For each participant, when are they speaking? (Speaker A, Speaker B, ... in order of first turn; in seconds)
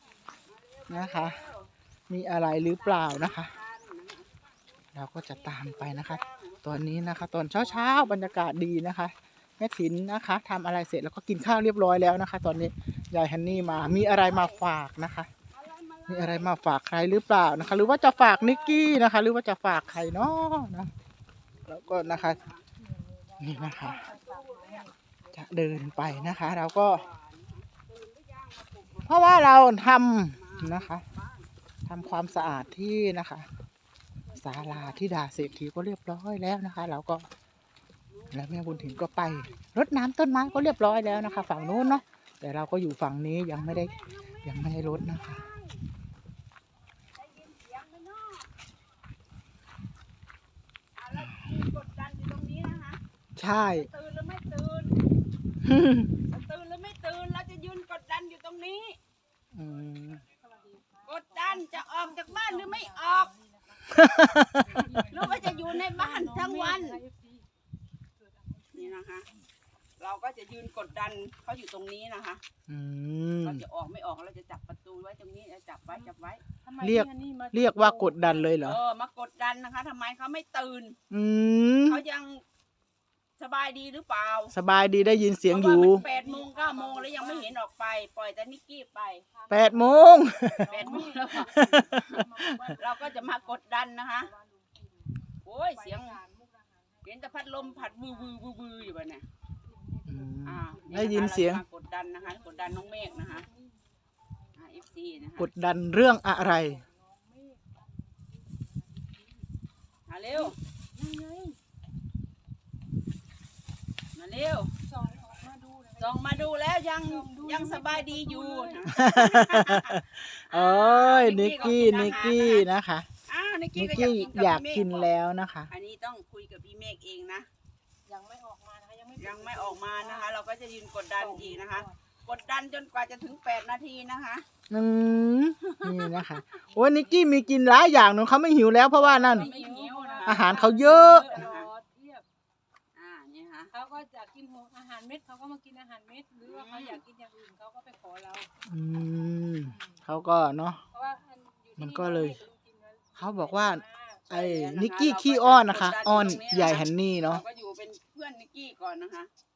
Speaker A: 0.4-1.7, 2.8-4.5, 5.2-8.4, 13.5-14.6, 15.5-16.6, 17.6-18.9, 21.6-22.7, 23.8-29.7, 30.3-32.7, 38.1-39.6, 40.4-42.0, 43.5-45.8, 47.1-48.5, 50.9-53.0, 53.5-55.0, 56.3-59.0, 61.0-63.3, 65.1-67.0, 68.7-69.3, 70.0-72.4, 73.4-76.4, 78.6-81.0, 81.8-82.4, 83.4-84.5, 85.4-89.2, 90.6-94.3, 95.4-96.2, 97.0-99.2, 100.4-103.5, 104.5-105.5, 110.1-110.5, 114.1-114.7, 116.0-122.6, 123.3-125.1, 125.7-127.5, 129.2-134.4, 135.7-136.3, 139.3-141.7, 142.9-143.7, 146.4-147.0, 154.3-159.3
Speaker B: 0.9-1.4, 2.1-3.5, 4.9-15.3, 16.1-20.9, 21.7-22.4, 23.4-24.0, 25.3-27.0, 29.1-31.0, 31.9-33.5, 34.4-37.3, 38.3-43.9, 44.4-45.4, 53.4-53.9, 55.6-56.1, 59.5-60.2, 63.9-64.8, 72.7-73.6, 76.8-78.8, 81.1-82.0, 84.5-86.0, 89.5-90.7, 91.4-92.7, 100.1-101.6, 105.4-106.8, 118.9-123.0, 123.7-125.7, 134.7-139.5, 140.2-141.4, 148.7-150.8, 151.8-152.4, 153.2-157.4
Speaker C: 22.8-24.9, 34.3-34.9, 60.3-64.0, 64.5-67.5, 68.2-69.0, 76.6-78.5, 85.6-87.6, 89.3-98.9, 99.6-101.3, 101.9-105.4, 106.4-109.5, 110.3-111.5, 114.8-116.5, 117.0-118.9, 121.2-122.4, 128.1-130.3, 131.2-131.9, 136.7-137.5, 138.9-142.2, 143.7-148.5, 149.6-150.0, 150.9-154.3